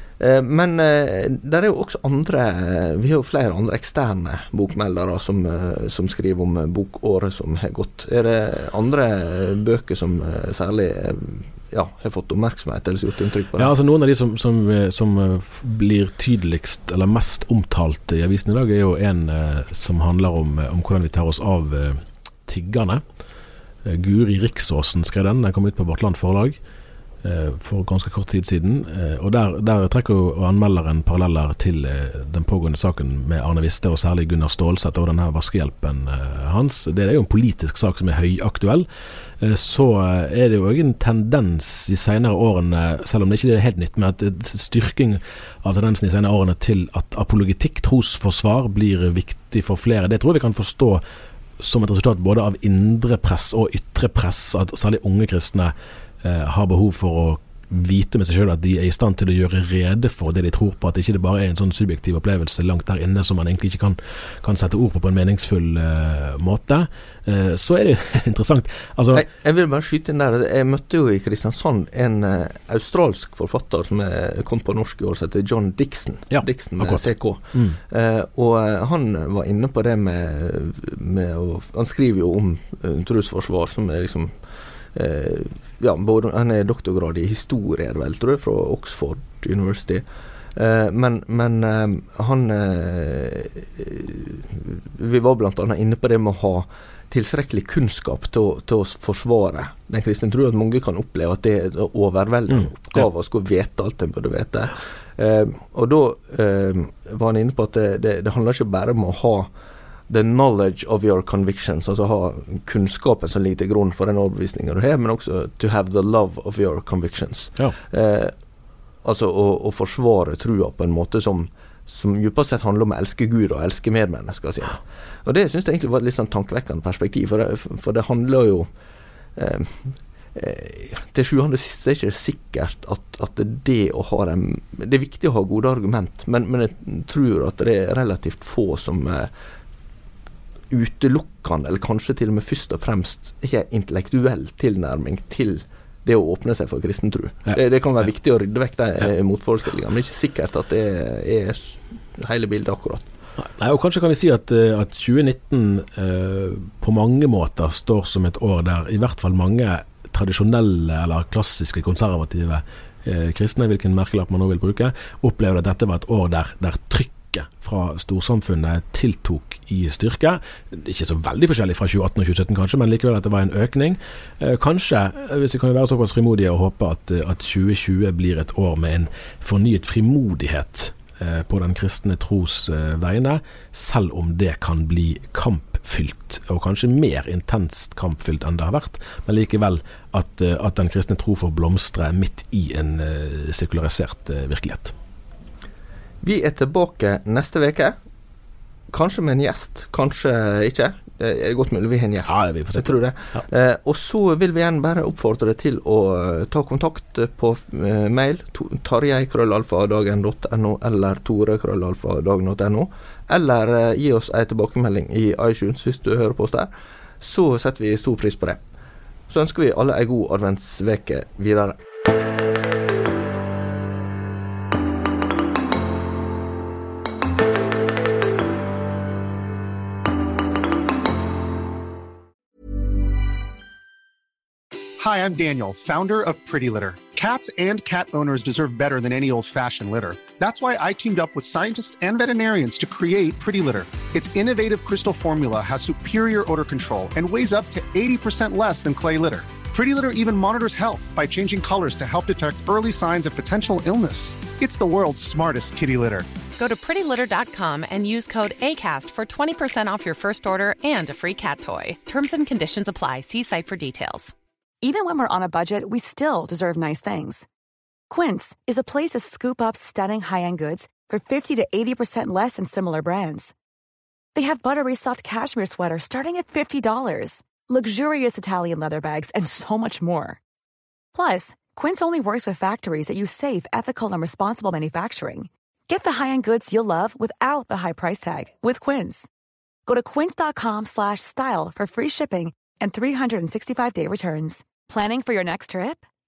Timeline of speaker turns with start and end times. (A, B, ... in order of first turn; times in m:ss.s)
0:00.2-0:13.7 A
0:13.6-0:23.0 B
0:23.8-0:26.6 B
0:27.2-0:38.9 B
0:39.4-0:51.0 B
0:51.6-1:09.2 B
1:09.1-1:24.3 A
1:16.3-1:17.8 B
1:24.9-1:49.5 A
1:42.6-1:43.0 B
1:50.1-1:58.3 A
1:59.0-2:08.7 A
2:09.4-2:19.3 A
2:20.7-2:33.0 A
2:33.4-3:14.9 B
3:16.2-3:18.0 A
3:18.9-3:38.6 A
3:22.3-3:23.4 B
3:39.3-3:41.8 A
3:55.0-4:16.3 C
4:16.6-4:24.3 D
4:24.8-4:27.5 E
4:28.1-4:33.5 E
4:34.4-4:40.4 E
4:41.1-4:49.3 E
4:49.9-4:56.1 E